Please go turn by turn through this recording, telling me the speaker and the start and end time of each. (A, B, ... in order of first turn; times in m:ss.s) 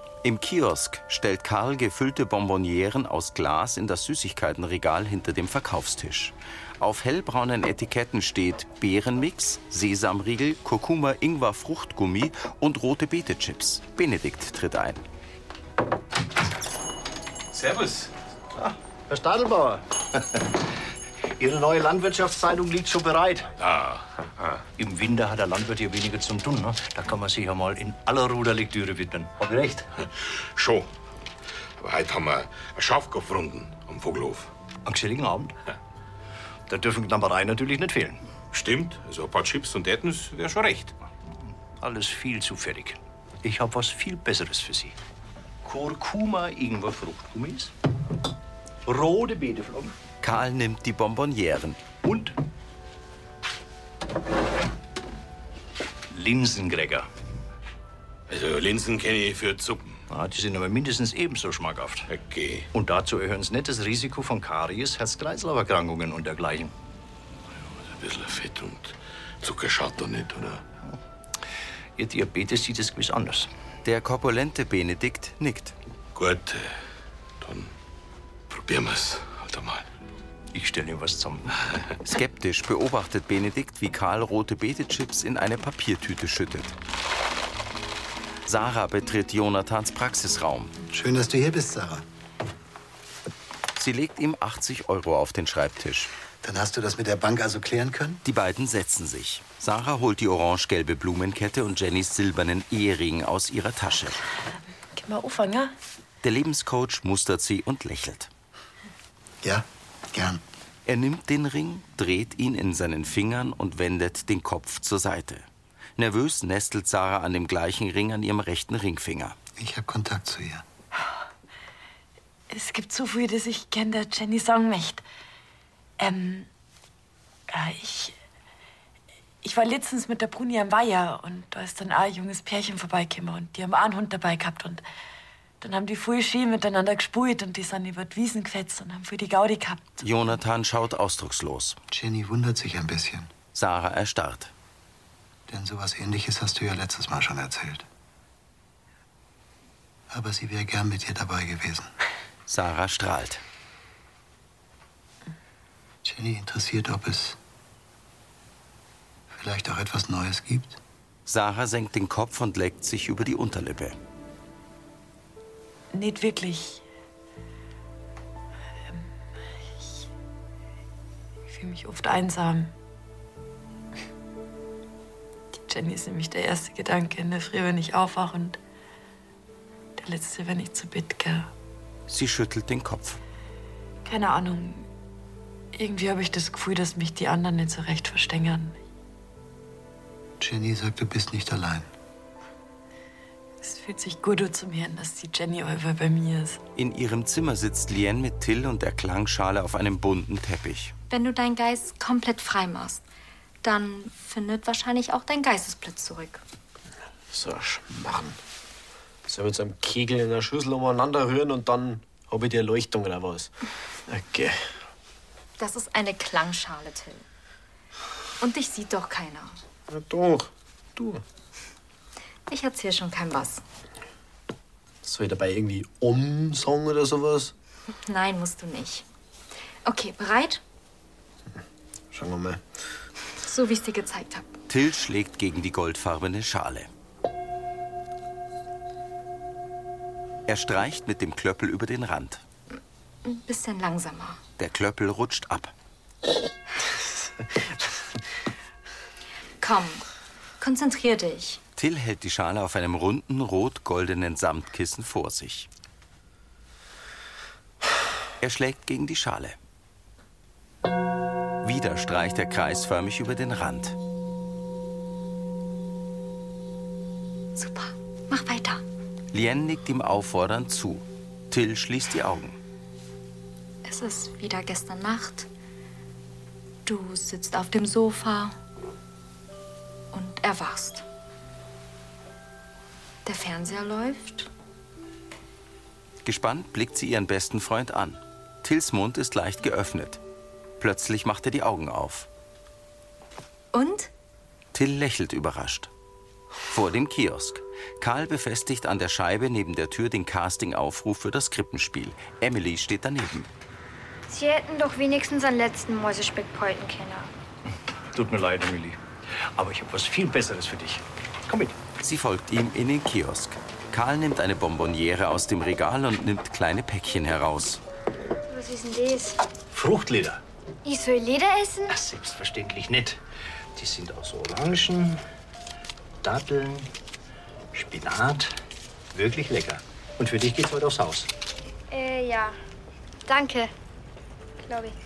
0:00.2-0:15.0 A
0:17.5-0:18.1 B
0:18.6-0:20.6 C
0:21.4-0:23.5 C
0:23.6-0:24.6 B
0:24.8-0:29.9 C
0:30.2-0:30.9 B
0:31.8-0:34.5 B
0:34.8-0:35.6 C
0:36.7-0:38.2 C
0:38.5-0:41.0 B
0:41.8-0:45.0 C
0:45.6-0:47.7 C
0:48.9-0:50.0 C
0:50.2-0:51.8 A
0:52.0-0:52.4 C
0:56.1-0:57.1 C
0:58.3-1:00.0 B
1:00.1-1:02.1 C
1:02.1-1:02.7 B
1:02.7-1:06.7 C
1:07.8-1:10.6 B
1:12.0-1:13.5 C
1:13.8-1:15.8 A
1:16.2-1:16.8 B
1:17.4-1:17.7 B
1:18.5-1:19.9 B
1:20.5-1:21.5 C
1:22.0-1:26.8 A
1:28.5-1:30.7 A
1:30.9-1:32.0 D
1:33.8-1:36.1 A
1:36.4-1:38.2 D
1:38.2-1:44.2 A
1:44.9-1:45.7 E
1:46.2-1:48.3 A
1:49.4-1:50.4 D
1:50.9-1:55.5 A
1:56.0-1:59.4 A
1:59.6-2:00.6 D
2:02.5-2:05.0 E
2:06.0-2:06.5 E
2:07.5-2:08.2 E
2:09.4-2:14.8 E
2:15.6-2:19.9 E
2:20.0-2:21.8 A
2:21.9-2:23.3 D
2:23.5-2:24.5 A
2:25.5-2:27.9 D
2:30.1-2:31.9 D
2:32.5-2:33.4 A
2:36.0-2:37.4 D
2:39.3-2:40.8 D
2:41.3-2:44.0 A
2:45.9-2:46.8 E
2:51.5-2:52.7 E
2:55.5-2:58.6 E
3:00.0-3:01.5 E
3:02.1-3:03.2 A
3:04.0-3:04.9 E
3:05.8-3:08.8 E
3:10.4-3:11.9 D
3:13.6-3:16.6 E
3:16.8-3:20.9 A
3:21.1-3:23.0 F
3:23.6-3:26.4 F
3:27.3-3:28.4 G
3:29.3-3:33.5 G
3:34.1-3:34.7 G
3:35.6-3:37.2 F
3:38.4-3:39.5 F
3:39.9-3:41.2 G
3:42.5-3:43.6 F
3:45.0-3:47.5 G
3:48.1-3:49.0 F
3:49.8-3:50.6 F
3:52.1-3:52.6 G
3:53.4-3:54.6 F
3:54.7-3:56.9 A
4:00.5-4:02.4 A
4:03.3-4:04.4 F
4:04.6-4:05.7 A
4:09.6-4:10.0 F
4:10.6-4:11.6 F
4:11.8-4:15.7 A
4:18.4-4:19.6 A
4:21.6-4:24.0 A
4:27.6-4:28.8 F
4:29.3-4:32.6 A
4:33.8-4:35.5 F
4:36.9-4:38.5 F
4:40.1-4:41.1 F
4:43.2-4:44.5 F
4:46.2-4:50.2 A
4:50.8-4:52.3 A
4:53.7-4:54.1 F
4:54.7-4:55.9 A
4:56.7-5:03.5 A
5:04.3-5:07.3 H
5:08.1-5:09.0 C
5:09.6-5:11.8 C
5:12.0-5:17.8 A
5:18.5-5:19.4 H
5:19.7-5:20.4 C
5:20.8-5:21.9 H
5:21.9-5:23.2 C
5:23.8-5:25.2 C
5:26.2-5:26.9 C
5:27.7-5:28.5 C
5:29.1-5:31.3 C
5:31.9-5:32.6 H
5:33.3-5:33.7 H
5:34.6-5:35.0 H